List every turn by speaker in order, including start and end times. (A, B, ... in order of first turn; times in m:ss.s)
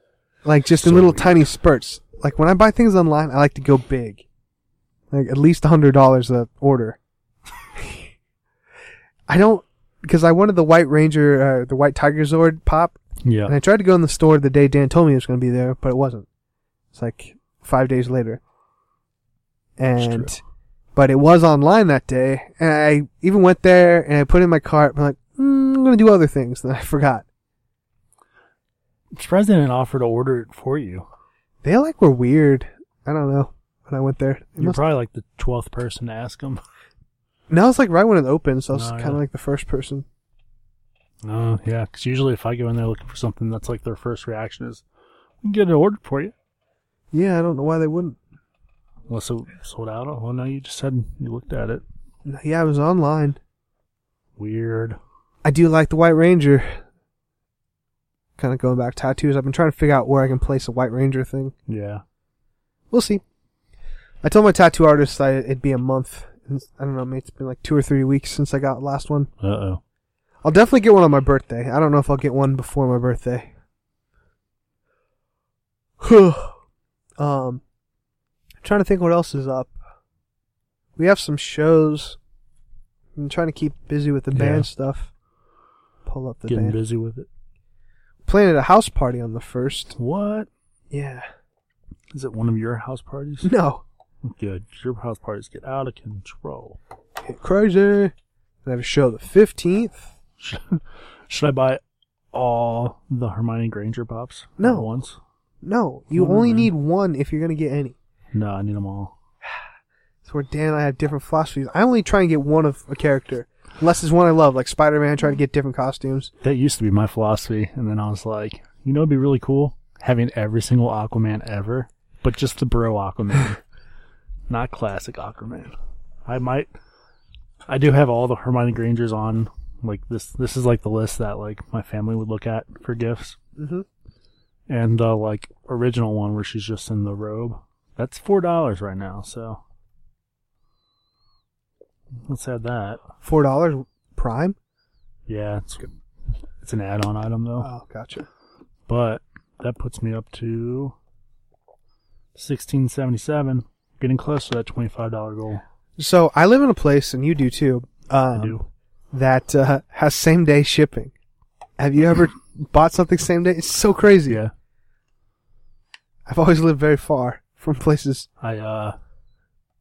0:00.4-0:04.2 A
0:00.8-0:01.4 B
0:05.1-0:07.0 A
0:07.8-0:08.1 A
0:09.3-0:16.3 A
0:13.2-0:13.6 B
0:16.9-0:18.4 A
0:19.8-0:20.4 A
0:19.9-0:20.4 B
0:20.9-0:27.2 A
0:29.2-0:31.1 B
0:31.6-0:34.8 A
0:34.6-0:36.6 B
0:37.5-0:40.1 A
0:38.7-0:39.2 B
0:41.2-0:44.8 B
0:45.4-0:46.3 B
0:47.1-0:48.2 A
0:49.1-0:51.8 B
0:52.2-0:53.4 A
0:54.4-0:55.0 B
0:55.4-0:56.8 A
0:58.4-1:01.6 A
1:01.7-1:02.0 B
1:02.9-1:03.2 A
1:04.2-1:09.3 A
1:09.4-1:09.8 B
1:10.4-1:13.5 A
1:16.0-1:16.6 A
1:17.2-1:17.6 A
1:18.6-1:19.7 A
1:21.0-1:22.2 A
1:23.1-1:25.1 A
1:24.3-1:24.7 B
1:26.0-1:26.8 A
1:26.5-1:27.3 B
1:28.2-1:30.0 A
1:30.0-1:30.5 B
1:30.9-1:31.2 A
1:32.1-1:33.5 B
1:33.4-1:33.8 A
1:34.2-1:36.8 B
1:37.2-1:38.1 A
1:38.6-1:40.1 A
1:40.4-1:41.8 B
1:42.3-1:45.2 B
1:44.6-1:44.9 A
1:45.6-1:48.0 A
1:46.1-1:46.7 B
1:48.3-1:49.1 B
1:50.2-1:56.3 A
1:56.4-2:03.6 B
2:04.5-2:05.7 B
2:06.2-2:06.7 B
2:07.7-2:13.4 B
2:13.6-2:13.9 A
2:14.7-2:19.6 B
2:22.2-2:23.0 B
2:23.2-2:24.6 A
2:25.3-2:25.9 B
2:26.6-2:27.7 B
2:27.6-2:28.2 A
2:28.9-2:30.9 B
2:32.4-2:35.6 B
2:36.0-2:41.1 A
2:38.3-2:38.6 B
2:41.8-2:44.4 A
2:46.3-2:48.3 A
2:48.4-2:49.0 B